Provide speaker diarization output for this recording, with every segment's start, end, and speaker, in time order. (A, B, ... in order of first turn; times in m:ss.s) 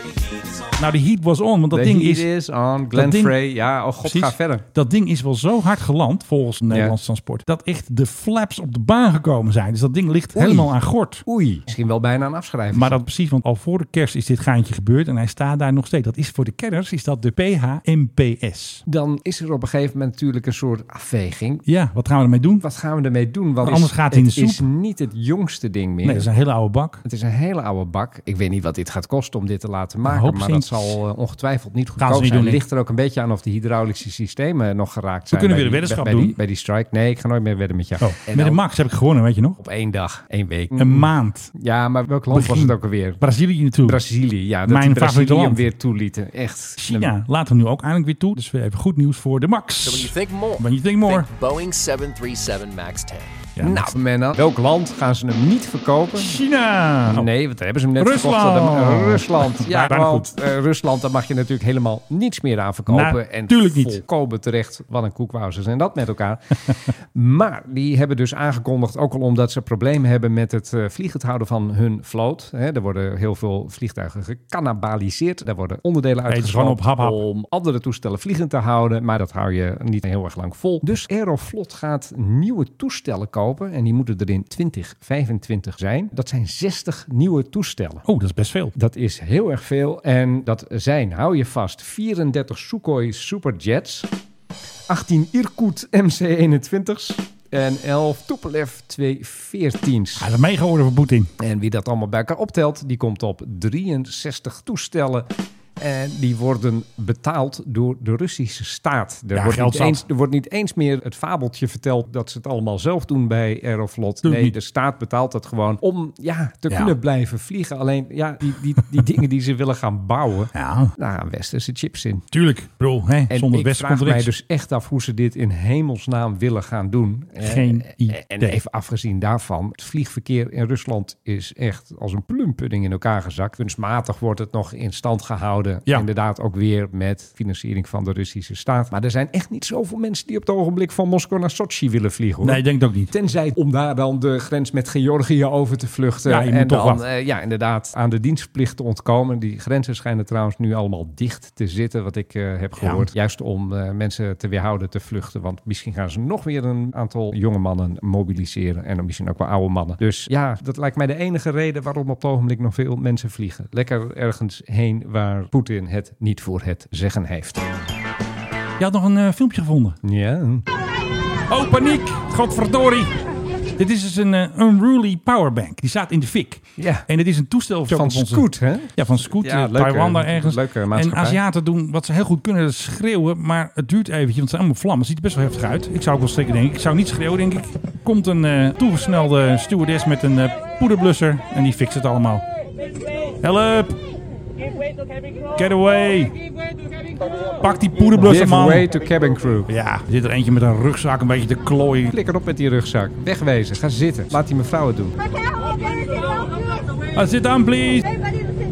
0:00.8-0:02.3 A
0:01.7-0:04.6 B
0:02.9-0:03.4 A
0:04.0-0:11.2 A
0:06.7-0:07.0 B
0:10.3-0:10.7 B
0:11.2-0:13.0 B
0:12.7-0:18.8 A
0:18.8-0:21.6 B
0:21.6-0:22.6 A
0:22.6-0:26.3 B
0:23.6-0:24.6 A
0:26.0-0:27.0 A
0:27.0-0:38.6 B
0:30.0-0:31.0 A
0:32.0-0:32.6 A
0:35.3-0:36.4 A
0:38.0-0:39.6 A
0:39.6-0:43.2 B
0:40.7-0:41.5 A
0:42.3-0:44.0 A
0:43.8-0:47.1 B
0:44.6-0:45.6 A
0:46.8-0:51.3 A
0:49.8-0:53.5 C
0:53.6-0:53.9 A
0:53.6-0:56.4 B
0:56.2-0:57.3 A
0:57.0-1:28.0 B
0:58.0-1:00.3 A
1:02.9-1:04.0 A
1:16.3-1:17.2 A
1:28.0-1:28.7 A
1:28.7-1:34.1 B
1:34.9-1:40.3 B
1:40.2-1:41.3 A
1:41.4-1:45.3 B
1:45.8-2:02.3 B
1:49.3-1:50.0 A
1:54.2-1:54.5 A
1:56.7-1:56.9 A
2:00.5-2:00.9 A
2:02.3-2:04.3 A
2:03.3-2:47.6 B
2:07.4-2:08.6 A
2:22.4-2:23.1 A
2:26.2-2:27.0 A
2:32.8-2:33.1 A
2:48.8-2:50.0 A
2:50.0-2:50.6 B
2:51.5-2:53.2 A
2:53.8-3:12.4 A
2:56.8-2:57.1 B
2:57.9-3:01.4 B
3:13.4-3:14.0 A
3:15.5-3:16.4 A
3:17.6-3:18.9 A
3:18.1-3:19.7 B
3:19.7-3:22.1 A
3:22.1-3:25.2 B
3:27.1-3:28.0 A